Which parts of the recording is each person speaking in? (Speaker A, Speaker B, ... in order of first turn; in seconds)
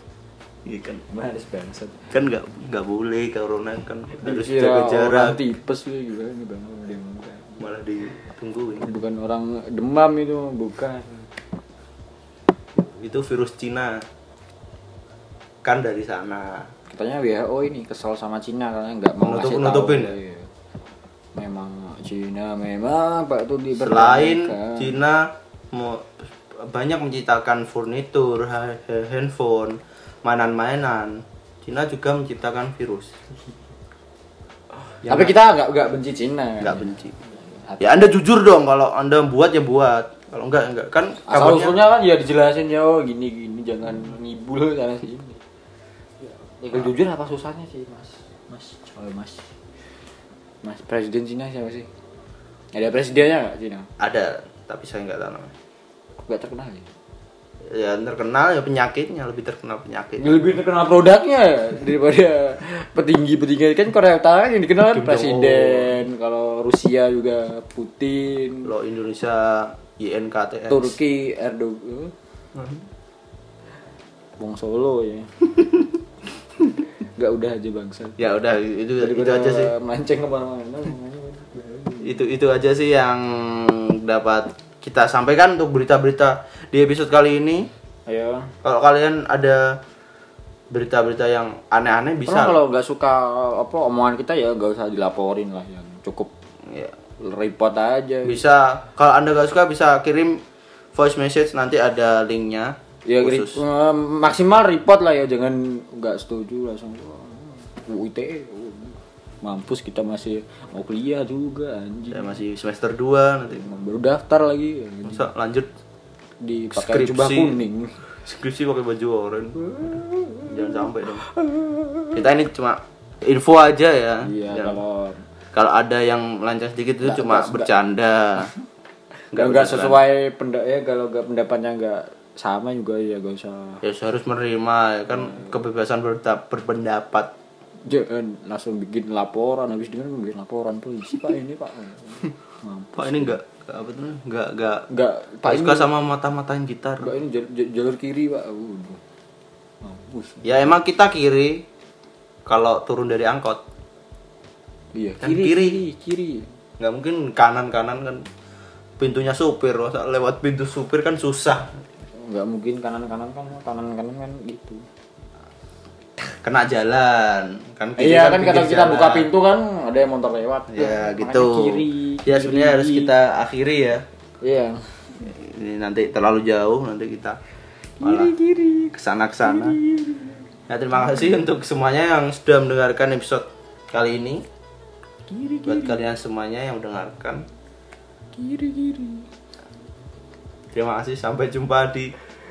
Speaker A: 0.7-1.0, 2.1-5.4, 7.6-8.9, 12.8-14.0, 15.6-16.7, 19.2-20.2, 23.8-33.1, 35.0-35.4, 36.6-37.2, 37.8-41.8, 54.0-55.5, 57.7-60.5, 64.9-66.0, 68.7-71.0, 72.5-72.8, 78.2-79.7, 82.0-87.7, 88.6-89.8, 90.7-92.6, 96.7-96.9, 98.2-100.4, 101.0-103.6, 112.1-113.7, 115.1-115.7, 116.8-117.6, 118.1-119.6, 120.4-121.2, 122.1-124.8, 125.5-128.5, 129.3-130.0, 133.8-137.3, 143.0-144.9, 145.4-147.1, 150.4-151.7, 152.5-153.6, 155.2-155.8, 156.8-158.3, 159.0-161.7, 166.4-169.3, 170.7-174.0, 175.3-177.4, 178.0-178.3, 178.9-179.8, 180.7-184.4, 185.7-187.5, 190.7-192.2
Speaker B: 0.9-2.1, 4.1-7.6, 8.8-11.2, 16.9-20.5, 21.4-24.9, 35.0-38.1, 41.3-45.4, 46.6-49.5, 50.6-51.9, 52.7-53.9, 56.2-56.9, 60.2-68.7, 70.7-72.1, 74.4-75.3, 77.2-78.3, 79.0-82.2, 88.1-88.5, 92.3-96.3, 97.2-98.4, 103.1-112.4, 113.5-115.3, 116.4-118.0, 119.6-122.2, 124.2-125.2, 127.0-127.7, 129.3-133.8, 135.1-135.5, 137.8-143.4, 144.9-145.9, 147.0-149.0, 149.8-150.4, 154.9-156.5, 162.2-164.8, 168.0-173.1, 174.4-175.3, 178.0-180.4, 181.0-181.4, 185.3-186.0, 188.3-189.3